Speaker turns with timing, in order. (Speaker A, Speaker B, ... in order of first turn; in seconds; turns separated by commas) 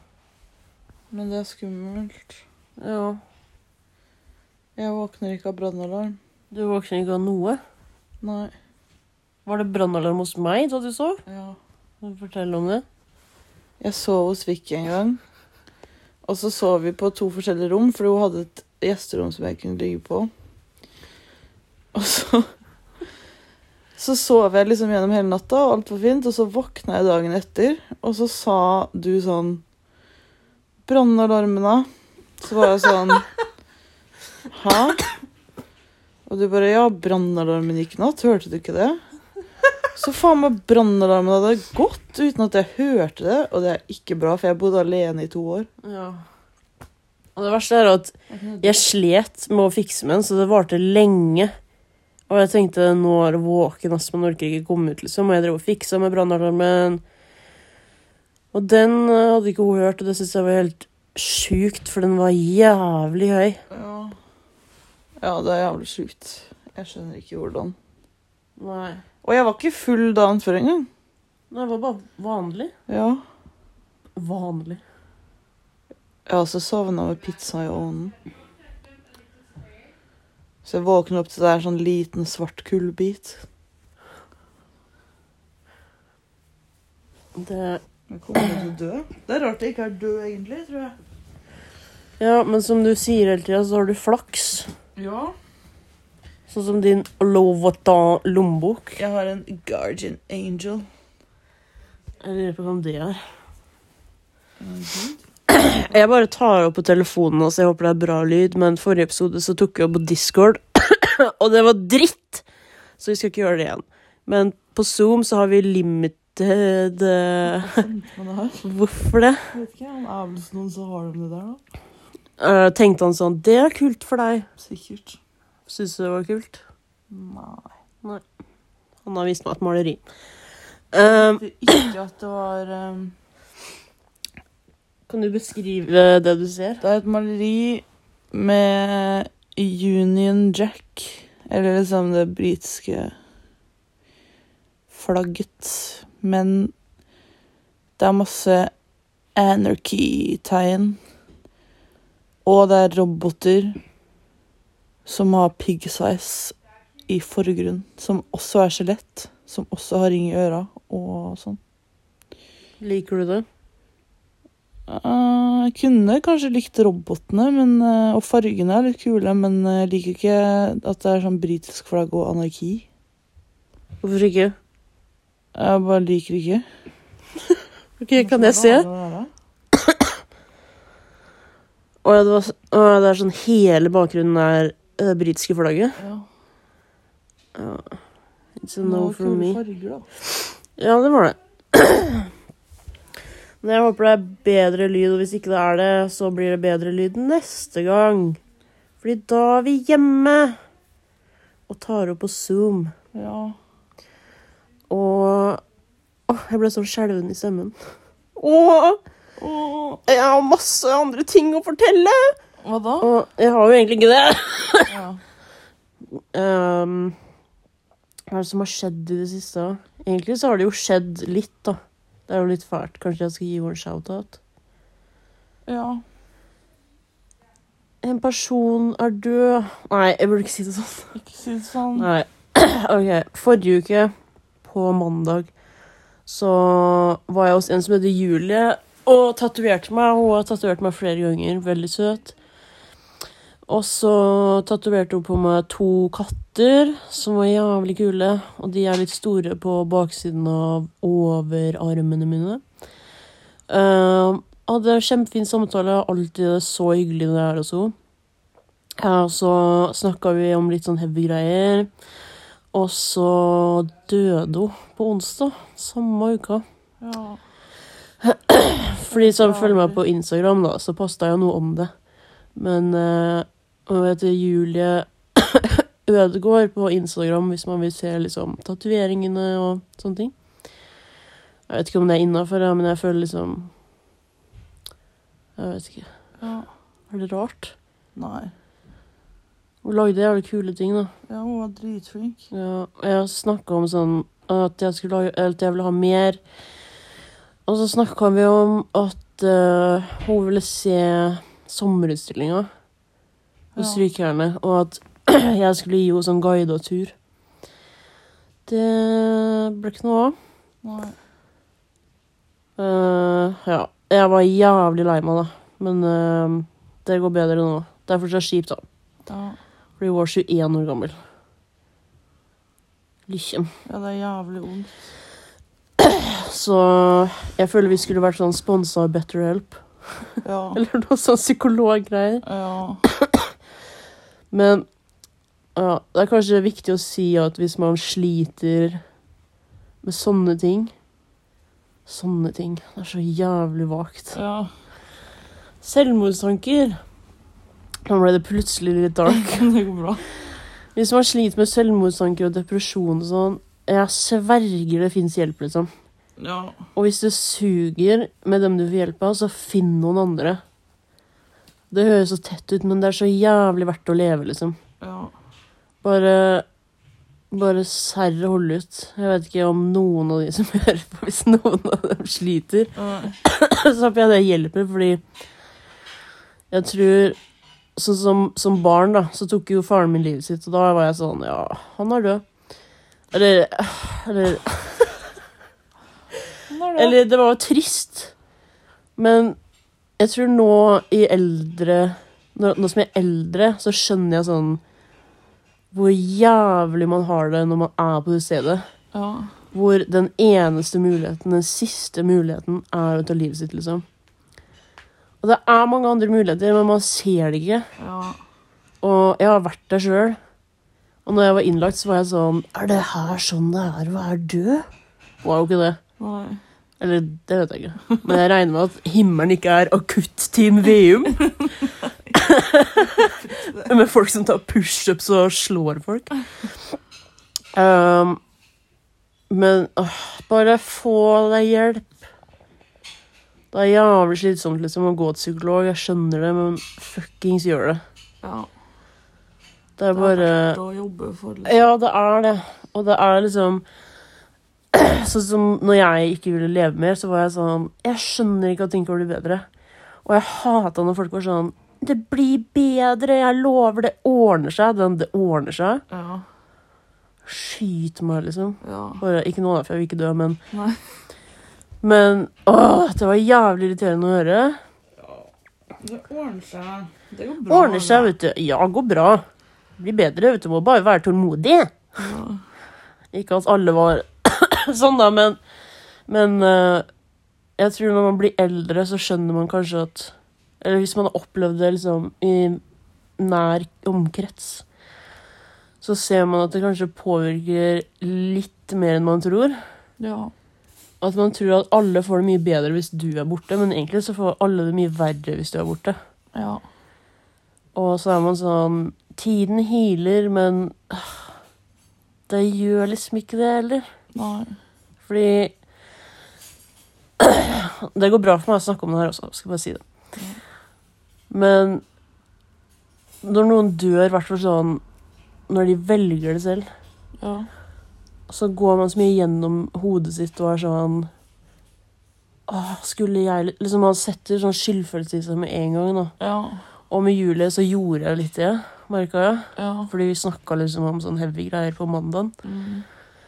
Speaker A: 1.1-2.4, Speaker B: 2.8-3.2, Speaker A: 4.8-6.2, Speaker B: 6.5-7.6, Speaker A: 8.2-8.5, Speaker B: 9.4-11.2, Speaker A: 11.2-11.6, Speaker B: 12.0-12.8, Speaker A: 13.8-15.2, Speaker A: 16.2-20.3, Speaker A: 21.9-22.5, Speaker A: 24.0-29.6, Speaker A: 30.9-33.3, Speaker A: 34.5-35.1, Speaker A: 36.2-39.0, Speaker A: 39.9-45.7, Speaker B: 45.8-46.2, Speaker B: 47.4-51.5, Speaker A: 48.3-48.8, Speaker B: 52.3-57.0, Speaker B: 58.5-63.6, Speaker A: 63.7-64.2, Speaker A: 65.2-67.8, Speaker B: 68.6-69.0, Speaker A: 69.2-70.9, Speaker B: 71.5-72.7, Speaker A: 72.9-73.2, Speaker B: 74.2-74.8, Speaker A: 76.2-78.2, Speaker A: 80.6-83.4, Speaker B: 87.3-87.8, Speaker A: 88.1-91.0, Speaker B: 92.2-94.7, Speaker A: 95.0-95.3, Speaker B: 96.5-99.0, Speaker A: 99.0-100.9, Speaker B: 102.2-103.2, Speaker A: 104.6-105.2, Speaker B: 105.5-112.4, Speaker B: 113.0-117.8, Speaker A: 117.5-118.6, Speaker B: 118.6-119.5, Speaker A: 119.5-121.6, Speaker B: 122.4-124.5, Speaker A: 124.6-125.2, Speaker B: 125.7-126.6, Speaker A: 127.1-127.7, Speaker B: 129.0-130.0, Speaker B: 130.9-131.9, Speaker A: 131.0-133.1, Speaker B: 135.1-136.8, Speaker A: 136.8-143.2, Speaker A: 144.9-146.7, Speaker A: 148.0-148.8, Speaker A: 149.3-151.0, Speaker A: 152.4-153.8, Speaker A: 155.1-161.6, Speaker B: 162.8-163.4, Speaker A: 164.9-172.8, Speaker B: 174.0-174.5, Speaker A: 175.5-176.7, Speaker B: 178.0-178.9, Speaker A: 178.1-179.3, Speaker B: 182.0-186.0, Speaker A: 186.0-186.3, Speaker B: 187.5-188.0, Speaker B: 188.6-189.6, Speaker A: 188.8-190.1, Speaker B: 190.3-192.3, Speaker B: 193.6-198.4, Speaker B: 199.0-200.6, Speaker B: 201.7-202.9, Speaker A: 203.1-203.6, Speaker B: 204.9-205.6, Speaker B: 206.3-209.0, Speaker A: 209.4-210.0, Speaker B: 210.1-212.4, Speaker A: 212.6-213.1, Speaker B: 213.0-214.9, Speaker A: 214.9-215.2, Speaker B: 216.1-217.2, Speaker B: 218.3-224.4, Speaker A: 225.7-226.0, Speaker B: 228.0-231.2, Speaker A: 231.1-232.1, Speaker B: 231.9-234.1, Speaker B: 234.6-235.5, Speaker B: 236.2-242.3, Speaker B: 243.7-252.6, Speaker B: 253.7-257.9, Speaker B: 259.0-262.0, Speaker B: 262.7-266.6, Speaker A: 267.0-267.4, Speaker B: 268.2-280.4, Speaker A: 269.1-270.0, Speaker B: 281.7-283.7, Speaker B: 285.6-286.4, Speaker A: 286.4-286.7, Speaker B: 287.1-287.7, Speaker A: 288.1-288.5, Speaker B: 289.8-291.1, Speaker A: 291.3-292.5, Speaker B: 292.5-296.4, Speaker B: 297.6-302.7, Speaker B: 303.7-307.1, Speaker A: 303.8-304.1, Speaker B: 308.6-310.4, Speaker A: 310.8-311.1, Speaker B: 312.8-318.9, Speaker A: 319.2-319.6, Speaker B: 320.0-321.2, Speaker B: 323.3-323.7, Speaker A: 323.9-325.0, Speaker B: 326.0-332.4, Speaker A: 330.4-330.8, Speaker A: 332.4-333.0, Speaker B: 333.0-333.4, Speaker B: 334.5-334.9, Speaker B: 335.7-339.0, Speaker B: 340.0-340.9, Speaker B: 342.1-344.4, Speaker A: 344.3-344.7, Speaker B: 345.8-347.0, Speaker B: 348.1-349.7, Speaker A: 349.3-350.2, Speaker B: 350.9-355.9, Speaker A: 356.4-356.8, Speaker B: 356.9-360.6, Speaker B: 361.9-364.8, Speaker A: 365.0-365.3, Speaker B: 366.0-366.6, Speaker B: 367.5-375.2, Speaker A: 372.9-373.4, Speaker B: 376.7-377.4, Speaker B: 377.9-382.4, Speaker B: 383.3-385.2, Speaker A: 386.7-387.2, Speaker B: 386.9-388.3, Speaker B: 389.2-389.6, Speaker B: 390.2-394.8, Speaker B: 395.9-398.9, Speaker A: 399.1-399.5, Speaker B: 399.7-404.0, Speaker B: 405.4-407.9, Speaker A: 408.0-408.4, Speaker B: 409.0-410.4, Speaker B: 411.2-414.9, Speaker B: 415.4-416.0, Speaker A: 416.2-416.6, Speaker B: 417.0-421.5, Speaker A: 421.4-422.3, Speaker B: 422.3-426.9, Speaker A: 423.1-423.9, Speaker B: 427.7-428.4, Speaker B: 429.5-432.1, Speaker B: 433.7-438.0, Speaker A: 438.4-438.7, Speaker B: 440.0-440.8, Speaker A: 440.1-441.7, Speaker B: 441.6-443.8, Speaker B: 444.9-449.6, Speaker B: 450.2-456.0, Speaker A: 456.1-456.4, Speaker B: 457.4-460.6, Speaker A: 458.8-459.2, Speaker A: 460.7-461.2, Speaker B: 462.0-464.8, Speaker A: 465.2-468.3, Speaker B: 467.7-469.4, Speaker B: 470.0-471.9, Speaker A: 472.1-472.6, Speaker B: 473.3-475.6, Speaker B: 476.3-477.1, Speaker B: 477.8-482.8, Speaker B: 483.4-484.9, Speaker B: 486.0-489.8, Speaker A: 490.2-490.5, Speaker B: 491.2-496.1, Speaker A: 496.5-496.8, Speaker B: 497.9-501.5, Speaker B: 502.5-504.1, Speaker A: 504.3-504.8, Speaker B: 505.2-505.8, Speaker B: 507.4-510.0, Speaker B: 511.5-512.0, Speaker B: 513.4-515.0, Speaker B: 515.7-516.9, Speaker A: 517.4-517.7, Speaker B: 518.5-521.3, Speaker B: 522.7-526.4, Speaker A: 526.4-526.8, Speaker B: 527.1-532.5, Speaker A: 529.8-530.1, Speaker A: 532.6-533.0